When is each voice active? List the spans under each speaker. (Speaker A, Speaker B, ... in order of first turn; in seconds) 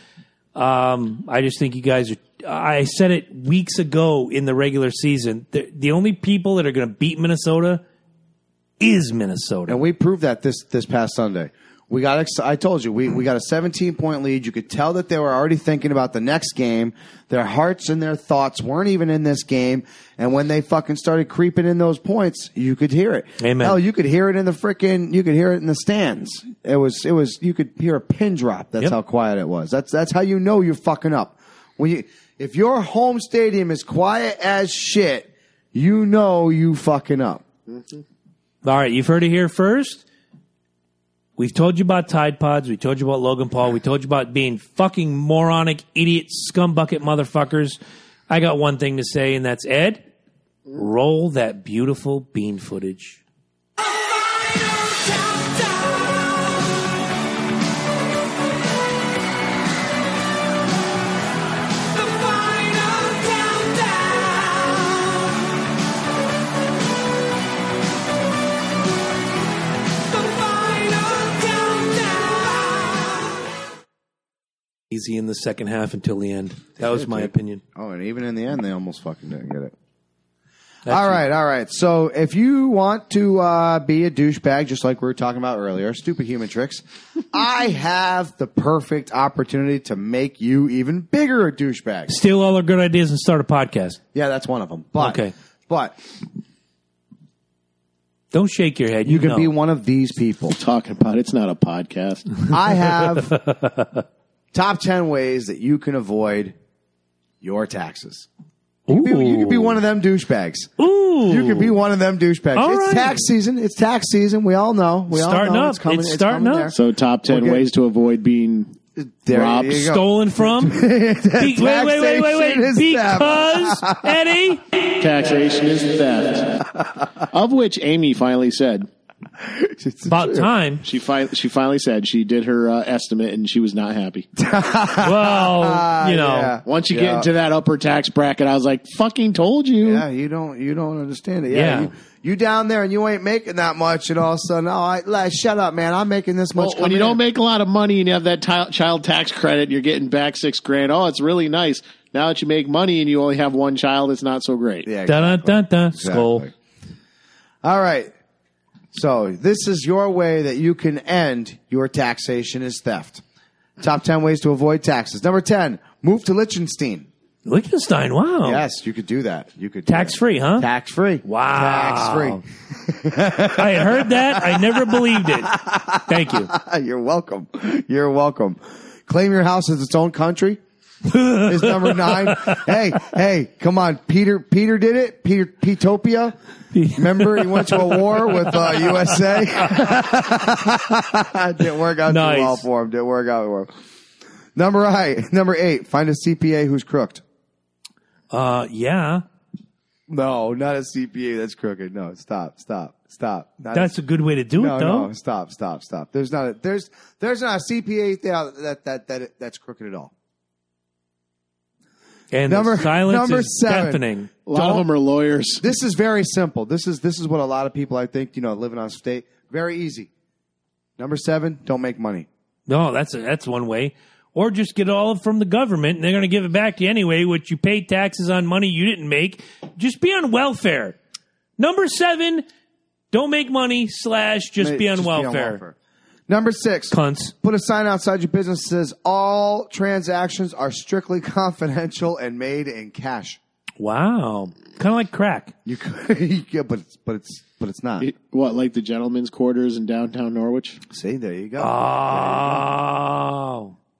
Speaker A: 0.5-7.8, 8.8-9.8, 23.4-23.8, 38.6-40.0, 41.4-50.0, 50.7-53.2, 74.9-77.6, 80.8-81.2, 92.1-94.0, 95.0-95.3, 98.3-99.5, 103.2-104.0, 108.9-109.8, 110.8-111.8, 112.5-113.2, 115.1-116.7, 119.7-120.8, 121.4-124.6, 130.1-130.8, 135.0-136.6, 141.5-141.9, 155.1-156.5, 167.4-168.6, 169.9-170.7, 171.2-172.4, 173.5-176.5, 181.1-182.7, 186.7-189.1, 192.1-192.7, 198.3-199.2, 203.7-205.1, 212.3-214.3, 222.7-231.0, 231.6-232.4, 233.1-235.6, 236.9-237.3, 243.8-245.5, 251.6-253.7
Speaker B: 9.7-37.4, 76.8-79.7, 80.9-92.1, 94.1-96.0, 99.0-100.6, 102.5-103.3, 104.5-106.5, 107.4-108.3, 108.9-110.7, 111.2-116.8, 117.3-117.6, 119.0-124.1, 129.4-130.5, 134.4-137.3, 139.8-147.2, 154.8-156.5, 157.6-158.1, 158.9-163.2, 163.8-167.1, 168.4-180.6, 181.4-186.3, 186.9-193.7, 194.5-197.2, 200.1-203.9, 204.6-210.1, 212.5-214.0, 214.5-214.8, 215.6-220.1, 221.0-222.3, 234.6-235.8, 236.3-243.4, 245.6-248.1, 250.9-252.7
Speaker C: 37.7-38.0, 100.5-102.5, 116.7-118.8, 119.3-119.9, 125.0-126.7, 127.2-128.9, 130.8-134.3, 136.7-140.0, 146.6-154.9, 214.4-215.6, 248.0-250.8